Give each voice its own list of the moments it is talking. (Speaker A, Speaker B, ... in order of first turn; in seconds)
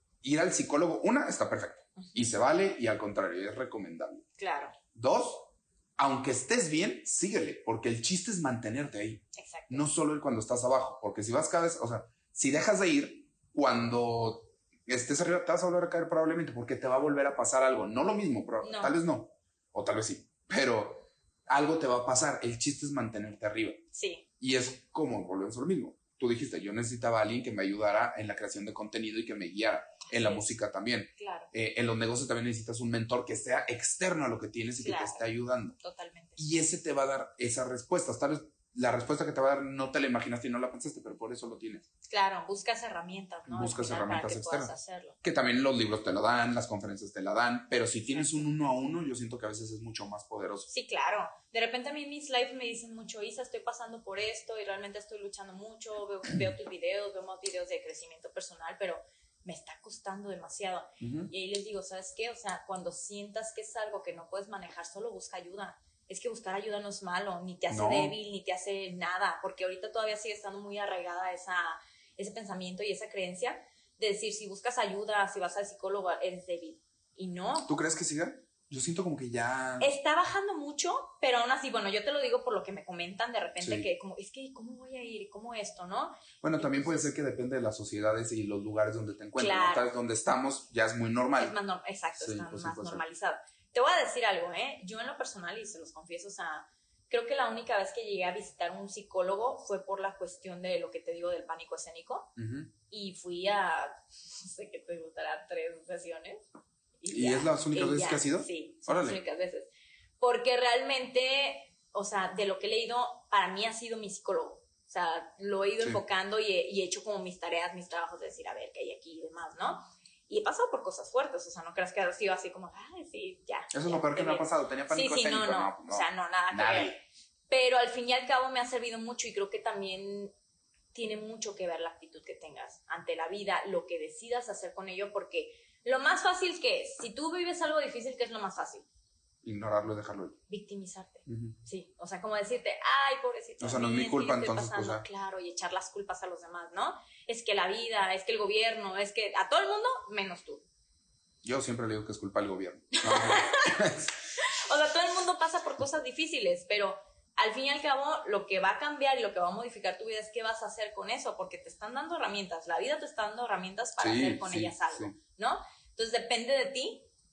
Speaker A: 0.2-4.2, 4.9-23.8, 24.4-35.8, 36.4-41.9, 43.5-50.7, 61.0-61.3, 67.7-68.2, 77.7-79.9, 83.6-83.9, 86.4-91.6, 92.2-93.0, 102.4-102.7, 107.1-109.2, 123.7-127.0, 139.4-140.4, 141.3-141.6, 143.6-145.0, 151.4-154.1, 164.0-165.2
Speaker B: 2.0-2.3, 4.4-4.8, 9.3-9.9, 18.6-19.0, 23.9-24.3, 30.1-30.4, 31.2-31.5, 34.8-35.3, 35.8-36.4, 42.1-45.2, 48.1-48.4, 50.7-77.7, 79.8-87.1, 89.4-89.9, 91.4-102.3, 102.9-106.5, 107.0-109.7, 110.2-127.0, 127.5-130.3, 130.9-138.8, 140.5-150.6, 153.0-153.7, 154.4-167.1